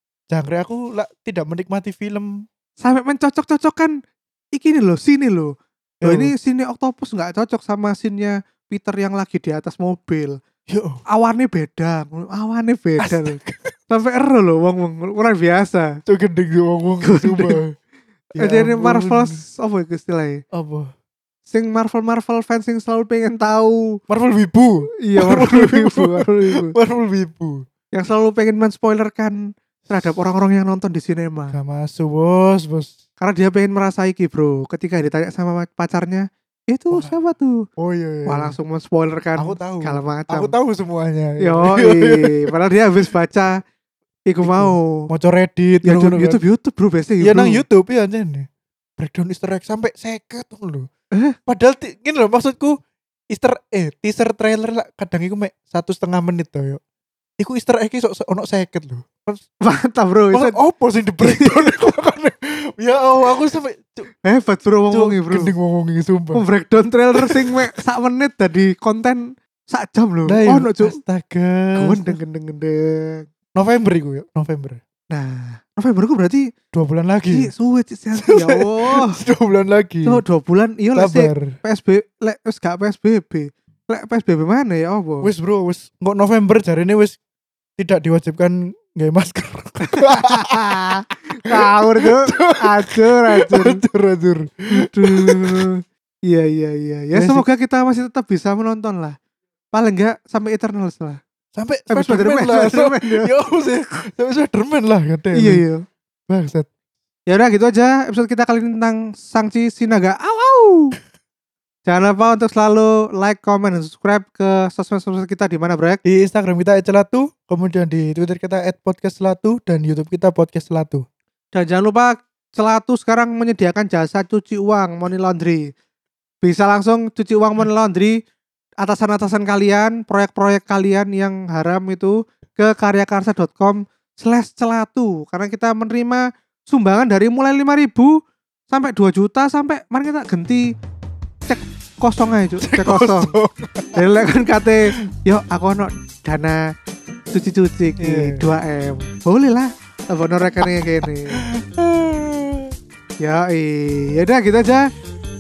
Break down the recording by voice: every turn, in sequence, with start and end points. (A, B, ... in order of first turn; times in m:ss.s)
0:00.3-0:02.3 A
0:02.8-0:03.9 B
0:04.5-0:10.4 B
0:06.0-0:06.3 A
0:10.7-0:11.0 A
0:11.1-0:13.4 B
0:13.0-0:13.8 A
0:13.9-0:15.9 B
0:16.1-0:17.7 A
0:17.0-0:17.6 B
0:18.3-0:19.4 A
0:18.4-0:20.4 B
0:20.5-0:20.9 A
0:21.5-0:24.0 B
0:24.1-0:27.6 A
0:25.0-0:26.7 B
0:27.9-0:29.4 B
0:29.9-0:31.6 B
0:31.5-0:33.0 A
0:33.2-0:37.6 B
0:37.8-0:38.5 A
0:38.3-0:40.5 B
0:39.4-0:42.4 A
0:41.4-0:43.6 B
0:44.3-0:45.1 B
0:44.4-0:46.4 A
0:45.8-0:47.6 B
0:47.2-0:48.5 A
0:49.0-0:50.9 A
0:51.5-0:52.8 A
0:53.3-0:56.8 A
0:57.4-0:59.5 A
0:59.6-1:00.6 B
1:00.3-1:04.1 A
1:01.2-1:01.7 B
1:04.2-1:05.5 B
1:04.9-1:06.4 A
1:06.3-1:11.0 B
1:07.2-1:07.5 A
1:10.3-1:12.2 A
1:11.8-1:13.3 B
1:13.6-1:14.8 A
1:15.1-1:16.5 B
1:16.7-1:17.5 A
1:17.3-1:19.2 B
1:18.2-1:20.2 A
1:20.0-1:25.3 B
1:21.0-1:21.5 A
1:25.2-1:27.2 A
1:27.8-1:30.6 A
1:29.8-1:33.8 B
1:31.5-1:35.7 A
1:34.7-1:39.2 B
1:37.2-1:37.4 A
1:39.7-1:41.2 B
1:41.6-1:45.6 A
1:41.9-1:43.3 B
1:45.4-1:45.8 B
1:46.3-1:46.7 A
1:47.3-1:51.0 B
1:51.9-1:56.0 B
1:56.0-2:01.0 A
2:01.5-2:05.7 B
2:06.4-2:08.2 B
2:08.8-2:18.1 B
2:18.7-2:20.6 B
2:21.5-2:23.4 B
2:22.6-2:24.0 A
2:24.0-2:26.6 B
2:27.3-2:31.4 B
2:28.0-2:28.4 A
2:31.0-2:32.7 A
2:33.2-2:34.9 B